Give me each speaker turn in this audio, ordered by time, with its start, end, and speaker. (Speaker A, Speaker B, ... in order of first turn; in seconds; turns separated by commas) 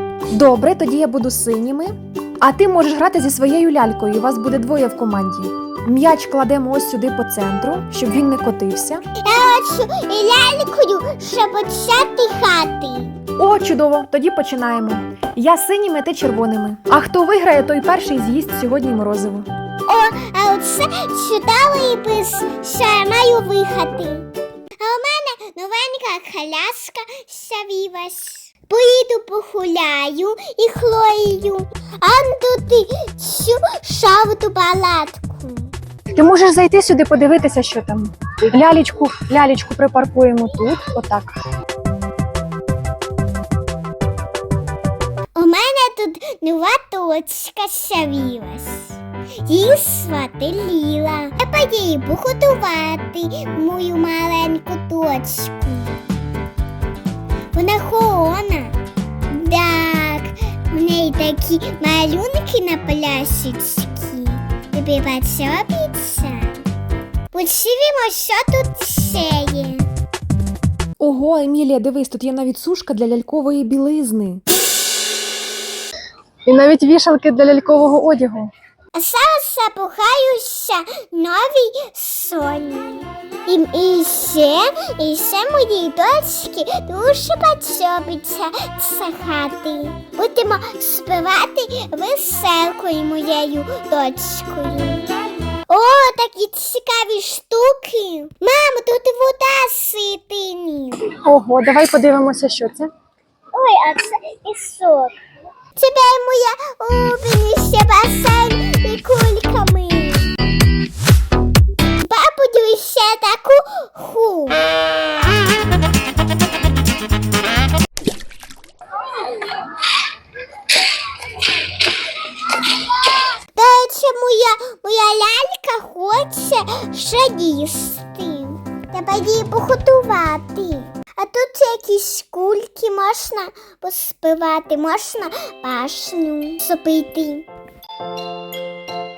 Speaker A: 0.3-9.1, Speaker B: 9.2-13.2, Speaker A: 13.4-19.5, Speaker B: 19.9-24.3, Speaker B: 24.8-35.7, Speaker C: 36.1-41.4, Speaker B: 45.3-56.0, Speaker B: 57.5-58.8, Speaker B: 59.3-66.7, Speaker B: 67.3-69.9, Speaker A: 71.0-74.4, Speaker C: 76.5-78.5, Speaker B: 78.9-95.1, Speaker B: 95.7-101.1, Speaker C: 101.1-102.9, Speaker B: 103.5-105.1, Speaker B: 105.7-110.3, Speaker B: 112.0-114.7, Speaker B: 123.5-137.5